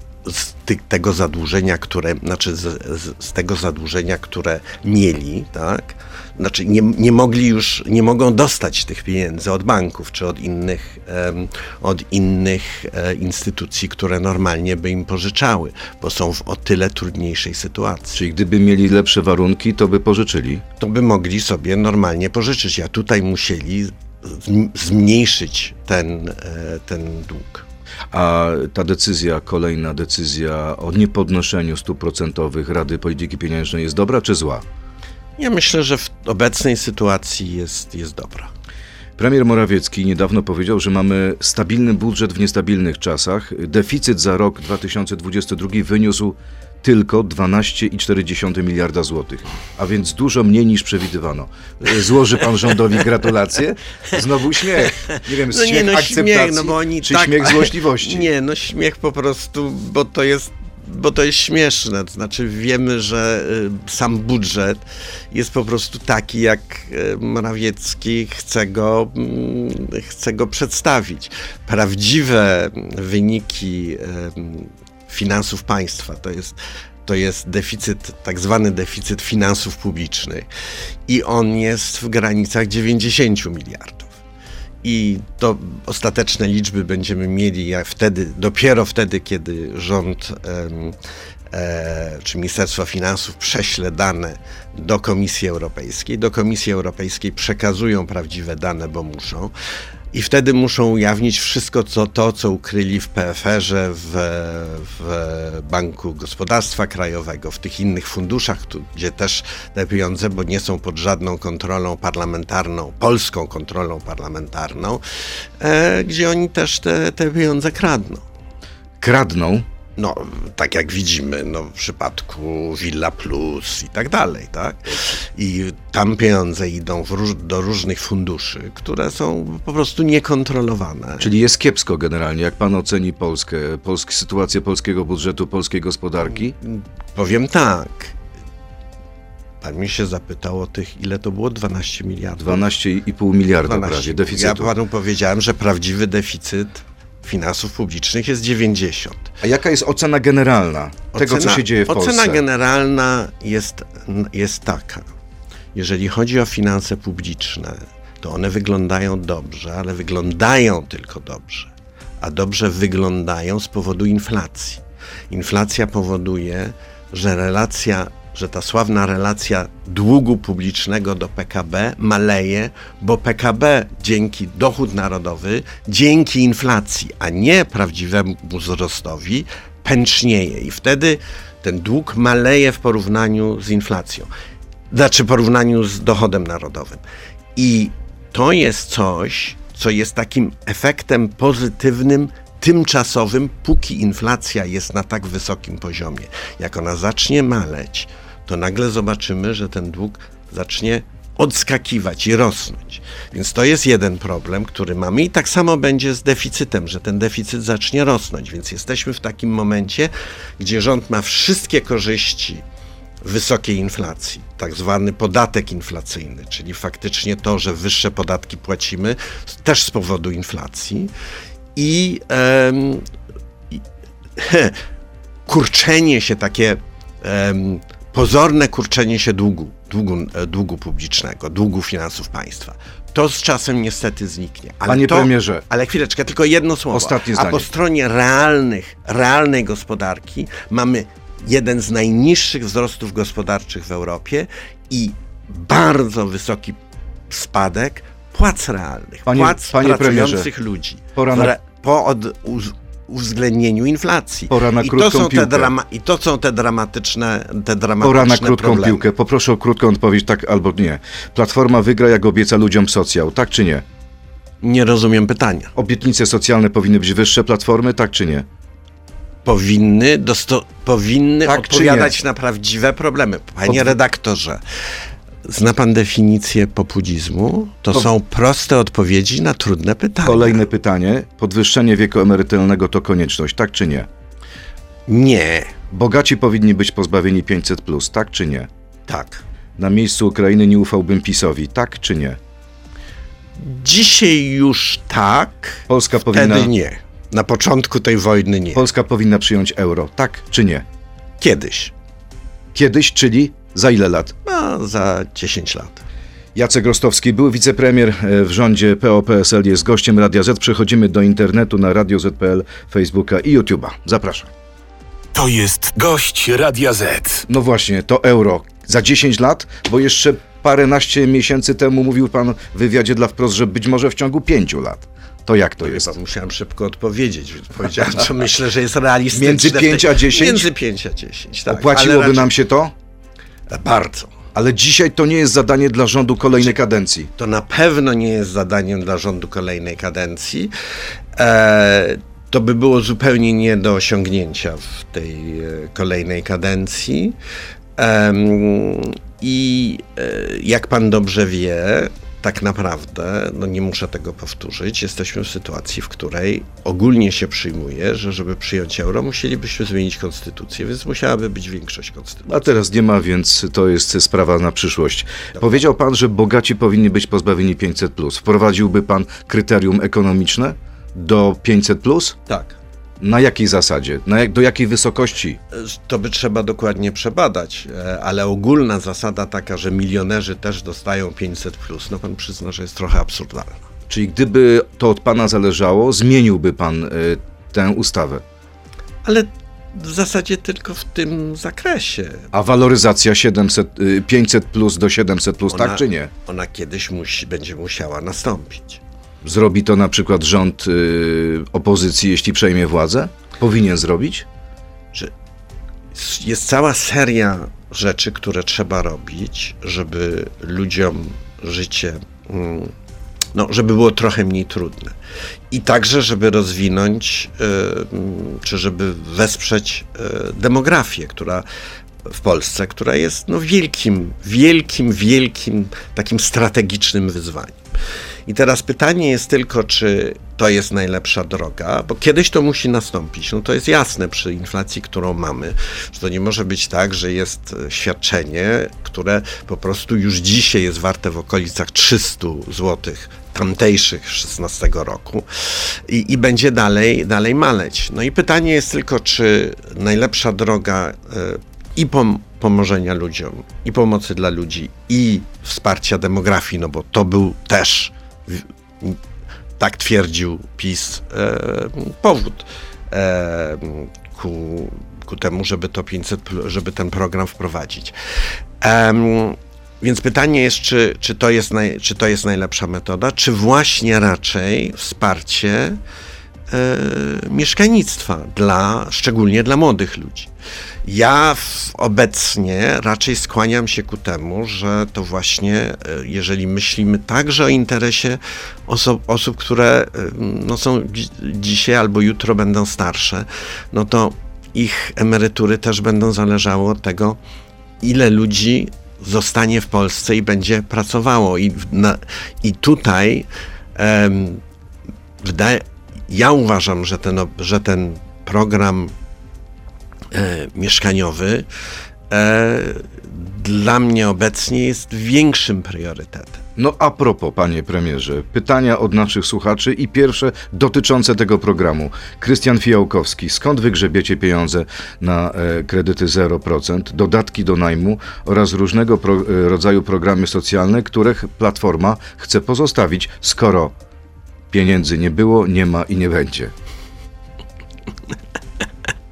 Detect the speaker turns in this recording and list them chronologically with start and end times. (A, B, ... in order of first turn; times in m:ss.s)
0:00.2-0:18.2 A
0:18.2-0:20.6 B
0:20.8-0:27.7 A
0:28.1-0:34.6 B
0:35.4-0:38.5 A
0:39.2-0:58.3 B
0:54.1-1:20.5 A
1:21.1-1:24.1 A
1:24.8-1:31.0 A
1:31.5-1:39.5 A
1:40.1-1:55.0 A
1:55.6-1:58.2 A
1:59.0-1:59.7 B
2:00.0-2:11.3 A
2:11.2-2:16.6 B
2:16.6-2:18.2 A
2:19.6-2:22.6 A
2:22.4-2:24.7 B
2:23.6-2:29.3 A
2:29.4-2:32.4 B
2:31.1-2:35.1 A
2:35.8-3:04.3 A
3:04.9-3:07.0 A
3:07.6-3:32.6 A
3:33.2-3:41.1 A
3:41.8-3:43.1 A
3:44.4-3:44.8 A
3:45.5-4:06.8 A
3:54.9-3:55.6 B
3:56.9-3:57.7 B
4:07.3-4:19.0 A
4:09.3-4:10.5 B
4:11.2-4:11.6 B
4:14.5-4:15.7 B
4:18.0-4:23.8 B
4:24.6-4:25.7 A
4:25.8-4:28.5 B
4:29.4-4:34.6 A
4:31.5-4:32.2 B
4:33.7-4:33.9 B
4:35.4-4:40.6 A
4:40.2-4:44.1 B
4:45.1-4:45.8 A
4:45.9-4:48.7 B
4:49.1-4:49.4 A
4:49.8-4:52.4 B
4:53.6-4:58.8 A
4:55.9-4:56.7 B
4:58.8-5:00.8 B
5:01.4-5:01.9 A
5:02.7-5:04.3 B
5:04.5-5:06.0 A
5:06.6-5:14.5 B
5:15.3-5:17.5 C
5:17.5-5:26.1 B
5:25.8-5:32.5 A
5:29.3-5:30.7 B
5:31.7-5:32.9 B
5:33.7-5:34.3 A
5:34.6-5:37.3 B
5:37.4-5:40.7 A
5:41.4-5:47.4 A
5:48.0-6:02.6 A
6:02.5-6:12.4 B
6:12.5-6:12.8 A
6:13.2-6:15.6 B
6:15.7-6:23.8 A
6:24.1-6:28.4 B
6:29.2-6:32.5 A
6:32.5-6:36.3 B
6:35.7-6:39.0 A
6:39.4-6:44.5 B
6:46.1-6:52.9 A
6:53.5-6:55.2 A
6:55.7-7:01.6 A
7:02.2-7:07.8 A
7:08.5-7:39.2 A
7:39.8-7:48.1 A
7:48.8-7:56.0 A
7:56.7-8:00.5 A
8:01.0-8:17.4 A
8:18.0-8:24.6 A
8:25.4-8:29.1 A
8:30.3-8:31.7 A
8:32.3-8:36.6 A
8:36.8-8:53.9 B
8:54.7-8:56.7 B